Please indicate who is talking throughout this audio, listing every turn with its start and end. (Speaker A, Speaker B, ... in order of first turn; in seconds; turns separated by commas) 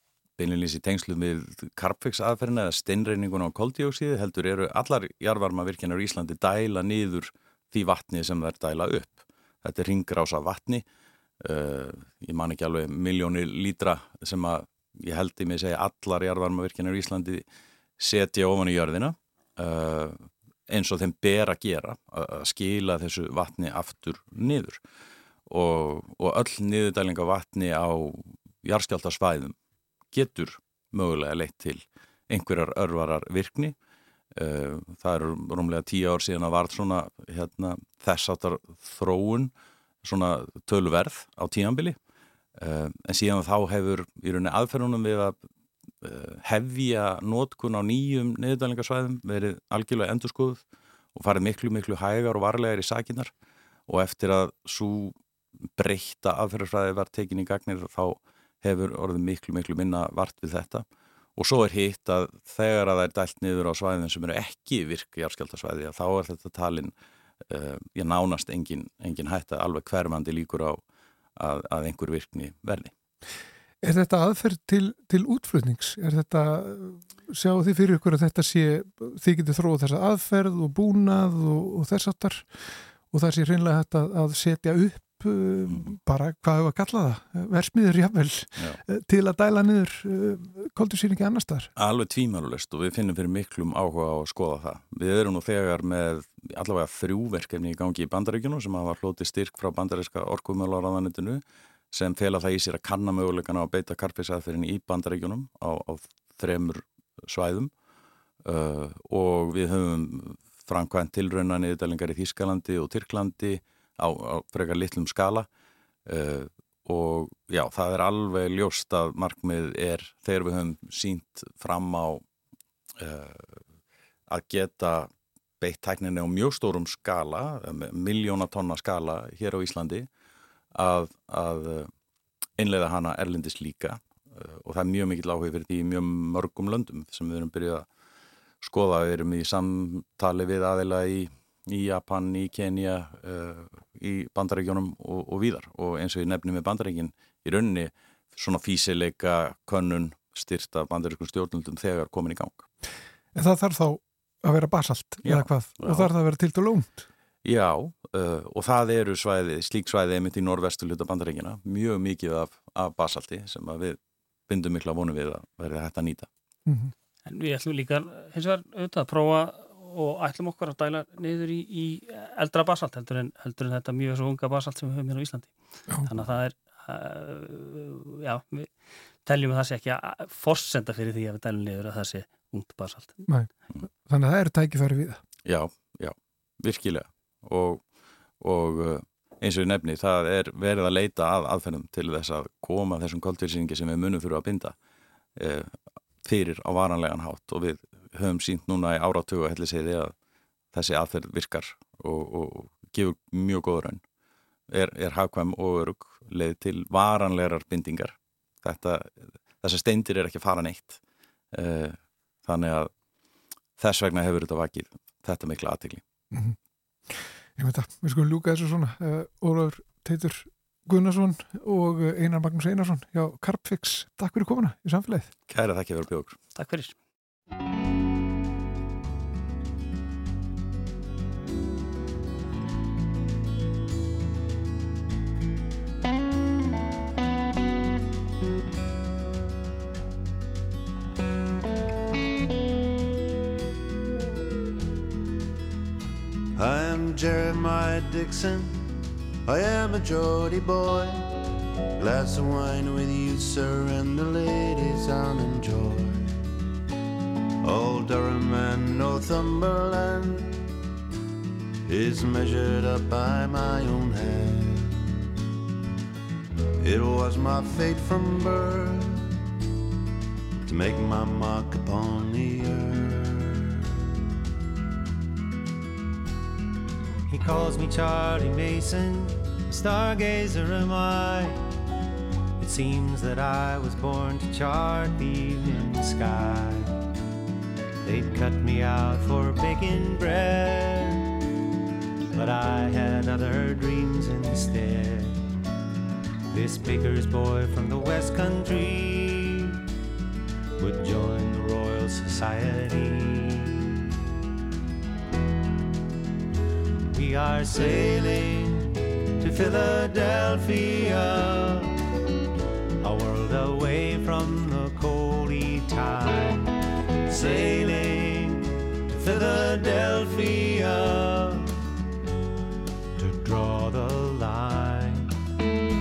Speaker A: 0.4-10.8, Speaker A: 11.4-17.4, Speaker A: 18.0-24.8, Speaker A: 25.5-29.5, Speaker A: 30.1-33.7, Speaker A: 34.4-39.5, Speaker A: 40.0-42.0, Speaker A: 42.6-45.4, Speaker A: 46.0-50.6, Speaker A: 51.1-53.3, Speaker A: 53.9-55.1, Speaker A: 55.8-60.8, Speaker A: 61.4-66.9, Speaker A: 67.5-70.8, Speaker A: 71.4-72.9, Speaker B: 73.8-91.7, Speaker A: 91.8-107.7, Speaker A: 108.4-115.5, Speaker A: 116.0-122.2, Speaker A: 123.0-123.6, Speaker A: 124.3-130.1, Speaker A: 130.7-131.9, Speaker A: 132.6-137.9, Speaker A: 138.6-152.7, Speaker B: 153.3-157.1, Speaker A: 155.2-156.1, Speaker A: 157.4-166.3, Speaker B: 166.7-166.9, Speaker C: 167.3-175.5, Speaker C: 176.1-178.7, Speaker C: 179.2-183.2, Speaker B: 183.3-185.2, Speaker A: 185.4-187.8, Speaker A: 188.4-194.7, Speaker A: 195.4-200.1, Speaker A: 200.7-204.0, Speaker A: 204.7-211.0, Speaker A: 211.5-212.9, Speaker A: 213.8-216.0, Speaker B: 216.3-225.3, Speaker A: 225.5-226.4, Speaker C: 226.6-226.9, Speaker D: 246.6-248.8, Speaker D: 249.4-251.2, Speaker D: 252.0-256.3, Speaker D: 257.6-260.6, Speaker D: 261.9-265.1, Speaker D: 266.8-269.4, Speaker D: 270.6-273.6, Speaker E: 277.3-281.6, Speaker E: 282.6-286.9, Speaker E: 288.0-291.3, Speaker E: 292.3-295.4, Speaker E: 296.5-299.7, Speaker E: 300.8-303.8, Speaker E: 307.1-311.9, Speaker E: 313.0-316.7, Speaker E: 317.3-321.7, Speaker E: 323.2-325.3